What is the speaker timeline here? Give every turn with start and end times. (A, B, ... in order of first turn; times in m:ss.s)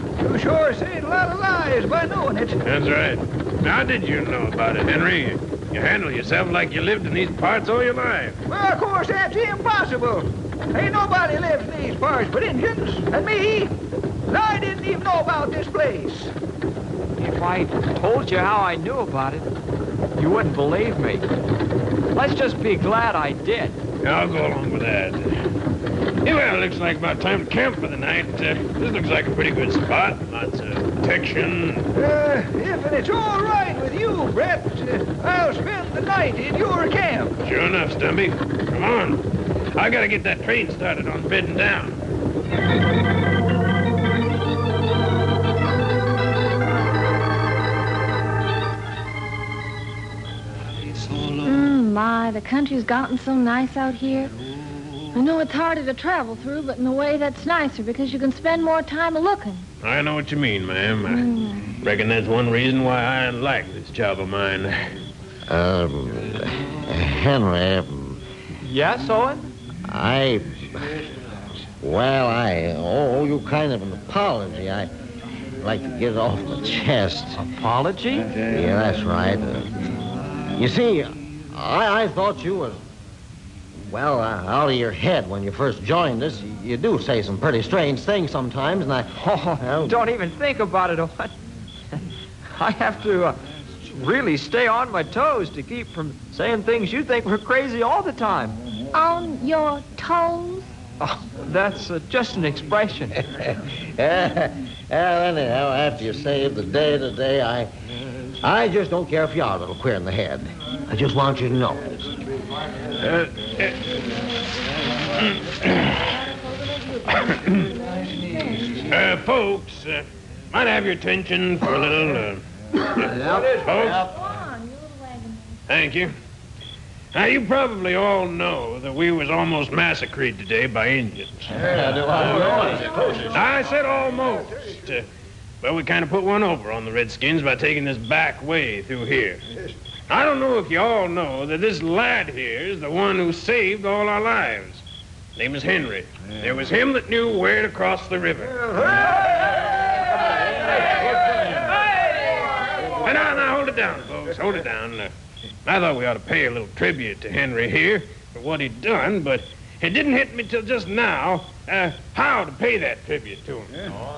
0:00.2-0:02.6 A
0:02.6-0:08.4 B
0:08.5-0:16.3 A
0:17.2-0:19.5 C
0:20.2-0:21.3 C
0:22.1-0:23.8 C
0:24.0-0:25.4 B
0:26.2-0:31.9 B
0:32.0-0:37.4 A
0:37.4-0:42.0 B
0:51.4-0:54.3 D
0:55.1-0:59.7 D
0:59.8-1:04.8 B
1:01.1-1:01.7 D
1:05.5-1:08.2 E
1:08.6-1:09.5 C
1:09.8-1:11.0 E
1:11.8-1:14.9 E
1:15.6-1:17.4 E
1:17.4-1:18.4 C
1:18.4-1:19.9 E
1:20.5-1:22.8 E
1:23.9-1:30.0 E
1:29.2-1:31.3 C
1:32.6-1:38.6 C
1:38.9-1:40.7 D
1:41.0-1:43.2 C
1:43.4-1:47.7 E
1:48.4-1:52.2 E
1:53.0-1:54.0 B
1:55.2-1:56.2 B
1:57.2-1:57.4 B
1:57.9-1:58.8 A
1:58.9-2:04.1 B
2:03.0-2:04.1 E
2:03.2-2:03.9 A
2:04.0-2:05.6 D
2:05.7-2:06.1 B
2:07.1-2:15.1 B
2:11.5-2:13.4 E
2:12.6-2:13.2 A
2:15.6-2:19.4 B
2:20.1-2:24.8 B
2:25.4-2:28.7 B
2:28.8-2:29.6 A
2:31.4-2:31.6 B
2:32.8-2:35.1 B
2:35.6-2:43.9 B